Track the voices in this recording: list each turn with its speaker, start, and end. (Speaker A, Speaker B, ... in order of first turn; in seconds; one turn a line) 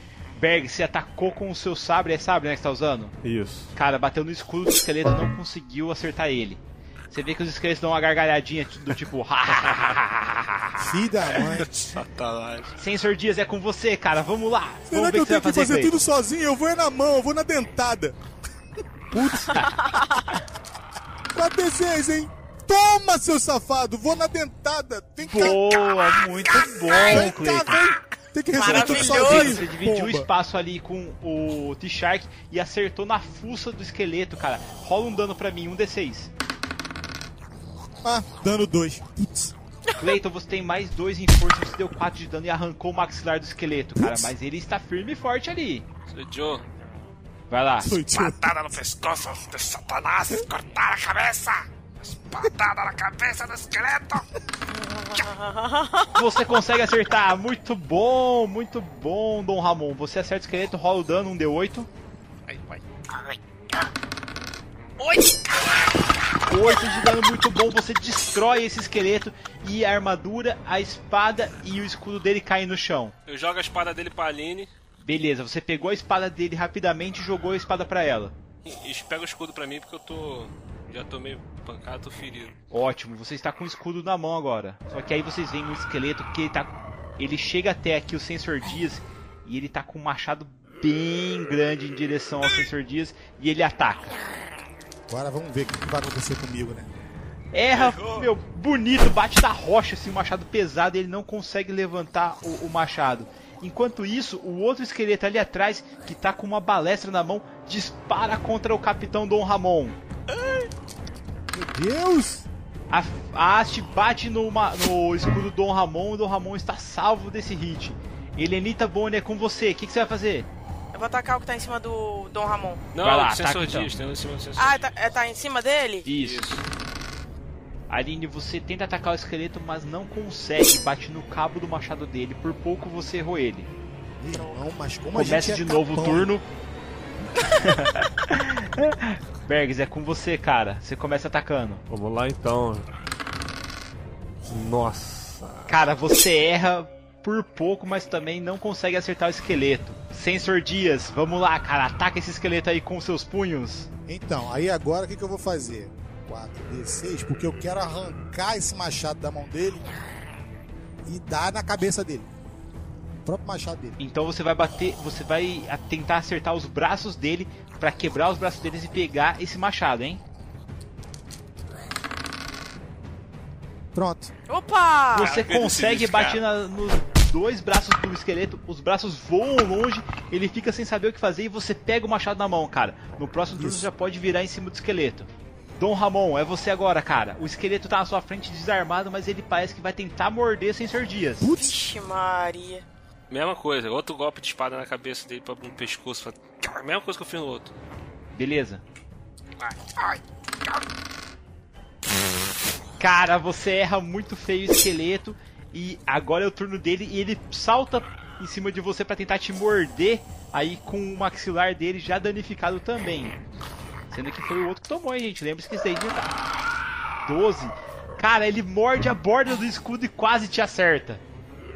Speaker A: 0.4-3.2
Speaker B: 3.2-3.7
Speaker A: 3.7-10.8
Speaker C: 10.8-11.7
Speaker D: 11.9-12.7
Speaker A: 12.8-16.0
Speaker C: 14.9-18.2
Speaker C: 19.1-19.7
Speaker E: 19.8-20.3
Speaker C: 21.3-25.8
Speaker A: 25.2-27.9
Speaker C: 26.9-30.3
Speaker E: 27.0-27.2
Speaker E: 28.5-29.6
Speaker A: 28.6-36.3
Speaker C: 38.0-39.5
Speaker A: 40.0-45.9
Speaker C: 44.0-44.3
Speaker D: 46.1-46.6
Speaker A: 47.5-48.0
Speaker C: 47.8-48.4
Speaker F: 48.0-54.2
Speaker E: 54.7-56.1
Speaker A: 56.1-61.9
Speaker F: 62.5-62.8
Speaker A: 66.5-73.1
Speaker D: 73.3-74.7
Speaker A: 75.0-78.3
Speaker D: 78.7-82.6
Speaker A: 82.7-94.2
Speaker C: 95.1-96.9
Speaker A: 97.5-110.0
Speaker D: 97.8-98.1
Speaker C: 111.5-112.5
Speaker A: 112.9-120.5
Speaker E: 120.9-122.8
Speaker D: 122.9-124.8
Speaker A: 123.0-123.9
Speaker E: 124.6-126.1
Speaker A: 126.0-126.5
Speaker D: 126.2-126.6
Speaker A: 127.9-133.7
Speaker C: 134.2-136.3
Speaker A: 135.1-136.4
Speaker A: 137.5-141.8
Speaker B: 141.9-142.9
Speaker B: 144.5-145.8
Speaker A: 145.7-153.9
Speaker C: 154.1-159.9
Speaker C: 161.1-162.3
Speaker C: 163.2-164.0
Speaker A: 164.0-170.2
Speaker C: 173.9-174.3
Speaker E: 174.5-175.3
Speaker A: 175.1-191.5
Speaker D: 175.2-176.4
Speaker C: 183.6-183.9
Speaker C: 191.4-191.8
Speaker E: 191.6-192.8
Speaker D: 193.3-197.7
Speaker A: 198.3-198.8
Speaker A: 203.0-213.4
Speaker A: 214.1-216.3
Speaker A: 217.2-221.2